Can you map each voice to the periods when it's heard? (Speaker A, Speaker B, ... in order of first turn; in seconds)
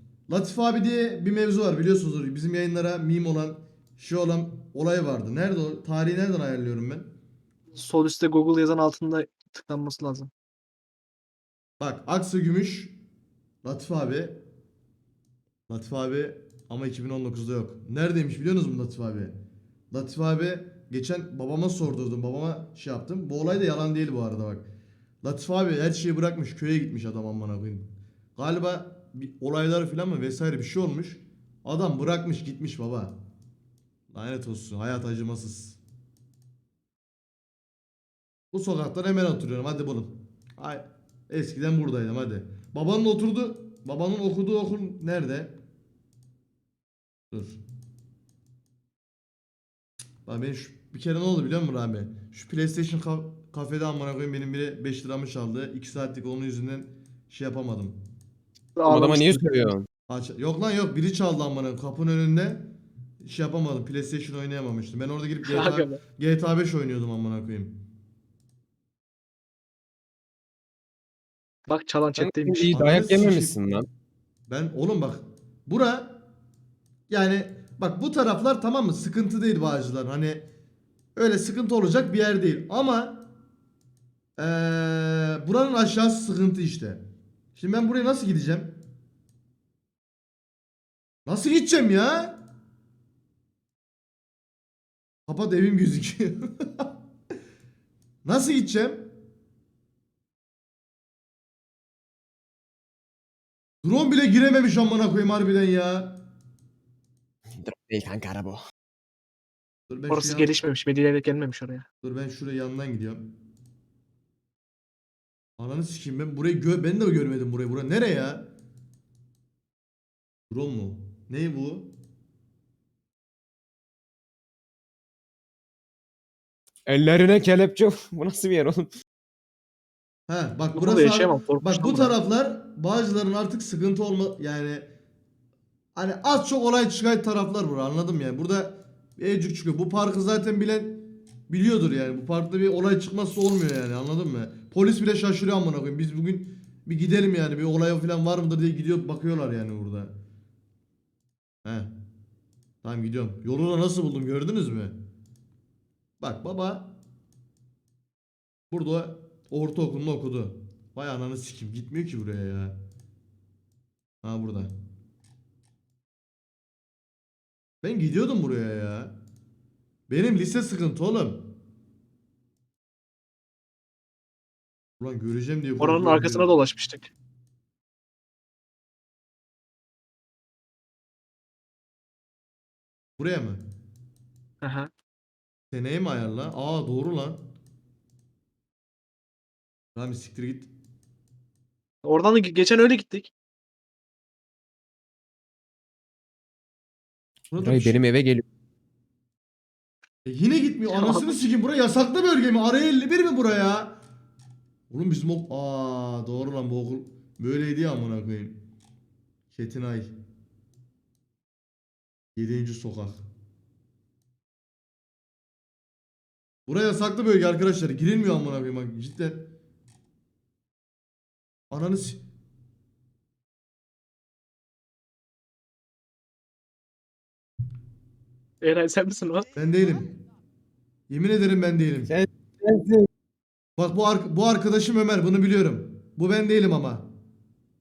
Speaker A: 0.3-7.0, 11.8-12.9, 13.6-14.4, 15.7-19.3, 19.9-24.6, 25.2-33.1, 34.1-35.8, 38.5-45.5, 47.3-47.6, 50.2-58.0, 60.1-62.7, 63.2-67.8, 72.7-73.6, 74.5-76.2, 77.1-80.4, 81.2-83.2, 84.4-87.0, 87.5-88.8, 91.2-92.4, 95.3-96.9, 98.2-99.1, 103.8-106.2, 109.9-110.5, 112.0-113.3, 115.6-118.5, 120.5-121.9, 130.3-134.8, 135.9-150.1, 151.6-151.9, 152.8-154.9, 156.2-156.9, 158.7-162.8, 164.2-164.7, 167.8-169.1, 170.1-171.5, 175.0-176.5, 183.2-183.6, 185.7-187.4, 189.9-190.7, 197.5-198.0, 200.2-204.0, 204.9-208.6, 209.5-210.1, 212.3-213.2, 216.7-219.5, 221.7-222.2, 229.6-230.1, 231.1-232.1, 233.8-237.1
Speaker B: 7.7-10.3, 58.8-59.7, 65.4-66.0, 71.7-72.7, 110.1-111.8, 130.7-132.2, 175.8-177.1, 184.6-184.9, 192.0-193.3, 200.9-201.4, 228.6-229.5
Speaker C: 58.9-59.9, 72.2-73.9, 107.6-108.6, 126.9-128.9, 197.6-198.4, 232.1-233.1